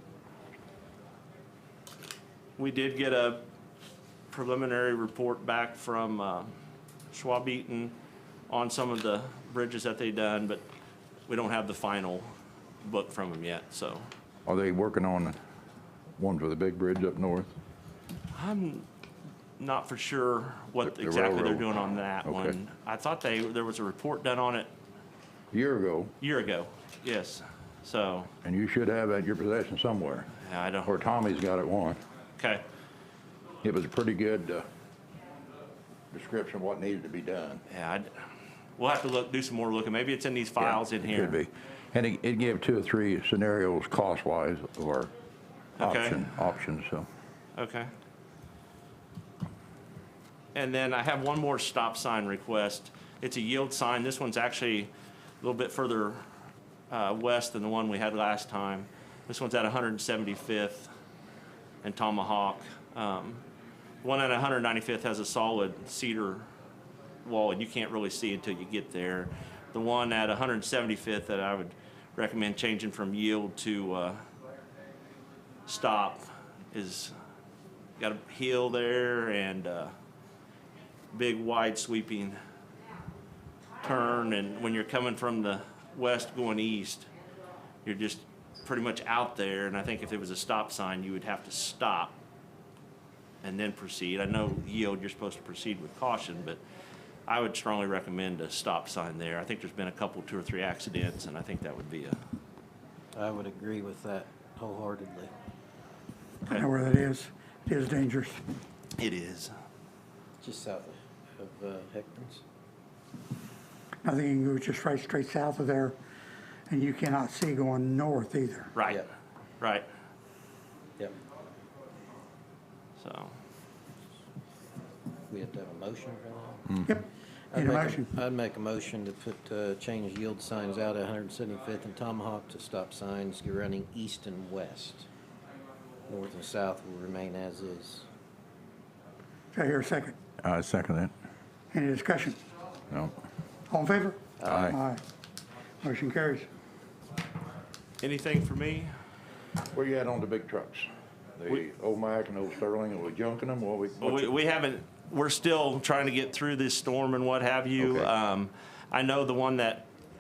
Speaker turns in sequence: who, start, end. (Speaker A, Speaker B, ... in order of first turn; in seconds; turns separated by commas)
Speaker A: 2.6-3.4, Speaker A: 4.3-6.5, Speaker A: 7.1-8.0, Speaker A: 8.5-10.7, Speaker A: 11.3-14.1, Speaker B: 14.5-15.4, Speaker B: 16.2-17.5, Speaker A: 18.3-18.9, Speaker A: 19.6-24.7, Speaker B: 20.8-22.6, Speaker B: 25.5-26.1, Speaker A: 26.2-28.3, Speaker B: 28.4-30.3, Speaker A: 30.4-30.9, Speaker B: 30.9-32.0, Speaker A: 32.4-32.6, Speaker B: 33.6-34.7, Speaker B: 36.1-37.6, Speaker A: 37.7-38.1, Speaker A: 38.8-41.4, Speaker B: 40.6-45.1, Speaker B: 45.8-47.1, Speaker A: 45.8-46.3, Speaker A: 47.5-47.9, Speaker A: 50.5-56.2, Speaker A: 56.9-60.9, Speaker A: 61.8-63.4, Speaker A: 64.0-66.5, Speaker A: 67.2-74.2, Speaker A: 75.7-77.1, Speaker A: 78.0-79.9, Speaker A: 81.1-82.4, Speaker A: 83.8-87.1, Speaker A: 87.8-92.2, Speaker A: 93.4-96.6, Speaker A: 97.3-102.2, Speaker C: 103.1-105.3, Speaker D: 106.5-108.4, Speaker A: 109.0-109.5, Speaker C: 110.4-112.4, Speaker D: 114.0-116.0, Speaker D: 116.7-118.7, Speaker A: 118.8-119.0, Speaker A: 119.6-119.9, Speaker A: 123.0-123.3, Speaker C: 125.3-126.9, Speaker D: 126.9-128.1, Speaker C: 127.5-135.1, Speaker C: 136.1-138.1, Speaker D: 139.5-140.2, Speaker B: 140.4-141.1, Speaker D: 141.7-142.4, Speaker D: 143.7-145.0, Speaker B: 144.4-144.8, Speaker D: 145.8-146.5, Speaker A: 148.0-148.9, Speaker B: 149.7-154.3, Speaker A: 154.0-159.9, Speaker B: 157.8-158.1